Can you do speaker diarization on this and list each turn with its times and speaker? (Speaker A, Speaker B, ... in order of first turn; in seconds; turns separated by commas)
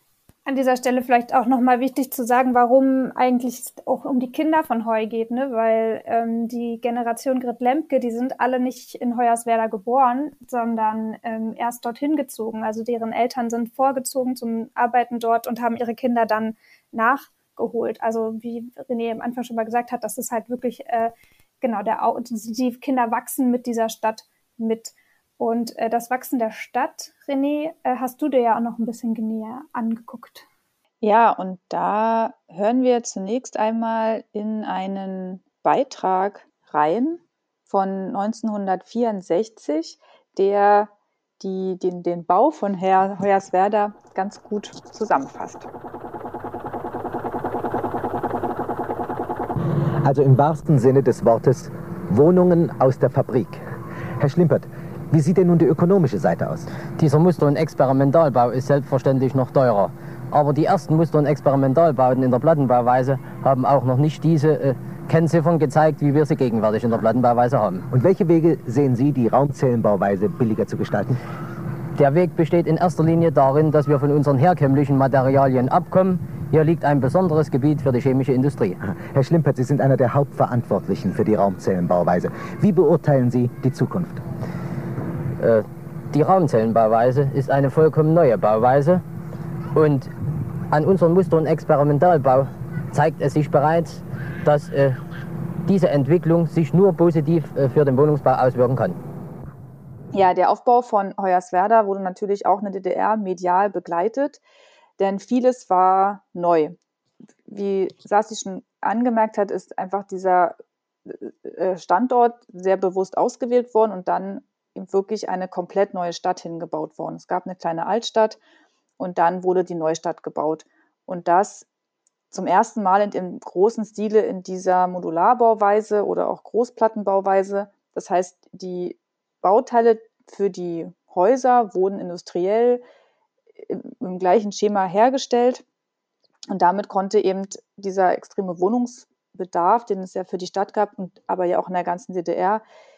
Speaker A: 0.5-30.4, Speaker B: 31.0-45.7, Speaker C: 50.0-53.6, Speaker C: 54.2-56.8, Speaker D: 57.0-67.8, Speaker C: 67.9-71.2, Speaker D: 72.0-78.8, Speaker C: 78.8-84.2, Speaker D: 85.4-89.0, Speaker D: 89.7-90.1, Speaker D: 90.7-95.0, Speaker D: 95.7-99.0, Speaker B: 100.1-104.4, Speaker B: 105.0-106.8, Speaker B: 107.5-118.4, Speaker B: 119.0-121.7, Speaker B: 122.3-132.8, Speaker B: 133.6-135.6, Speaker B: 136.5-142.6